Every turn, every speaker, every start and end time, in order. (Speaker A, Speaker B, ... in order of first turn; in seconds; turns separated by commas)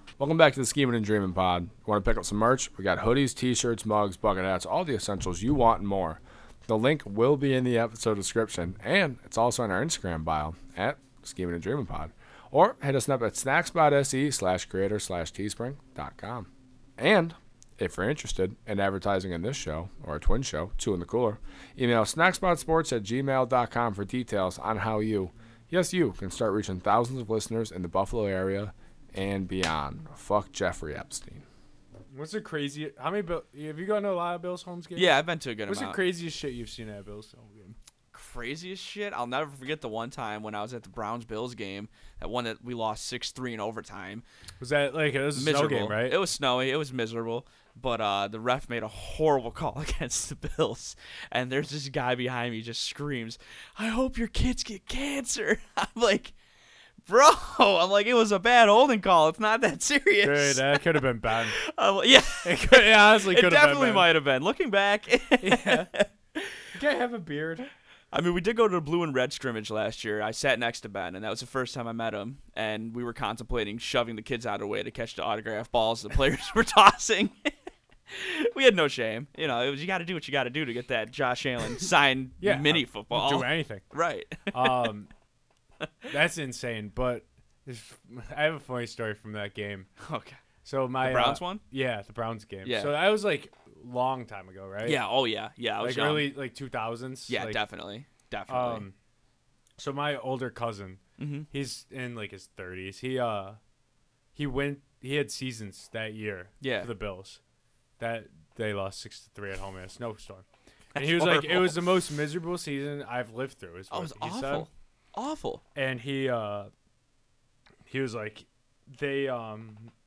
Speaker A: 0.2-31.4, Speaker B: 32.1-35.1, Speaker C: 35.0-36.0, Speaker B: 35.7-37.8, Speaker C: 38.1-44.2, Speaker B: 44.6-46.2, Speaker C: 45.4-56.4, Speaker C: 57.1-66.6, Speaker B: 60.2-61.6, Speaker B: 62.4-64.1, Speaker B: 65.4-65.9, Speaker B: 66.7-67.7, Speaker C: 68.1-77.5, Speaker C: 78.1-84.9, Speaker B: 82.4-83.9, Speaker B: 84.5-85.1, Speaker B: 86.1-89.9, Speaker C: 90.0-90.4, Speaker B: 90.6-95.0, Speaker C: 91.0-91.6, Speaker C: 92.7-93.0, Speaker C: 94.8-96.3, Speaker B: 95.8-97.6, Speaker C: 97.3-98.8, Speaker B: 98.5-99.0, Speaker B: 99.8-103.6, Speaker C: 101.2-101.5, Speaker B: 104.3-107.4, Speaker C: 106.6-106.9, Speaker B: 108.0-114.7, Speaker C: 111.0-112.0, Speaker C: 113.9-115.6, Speaker B: 115.8-116.7, Speaker B: 117.8-119.9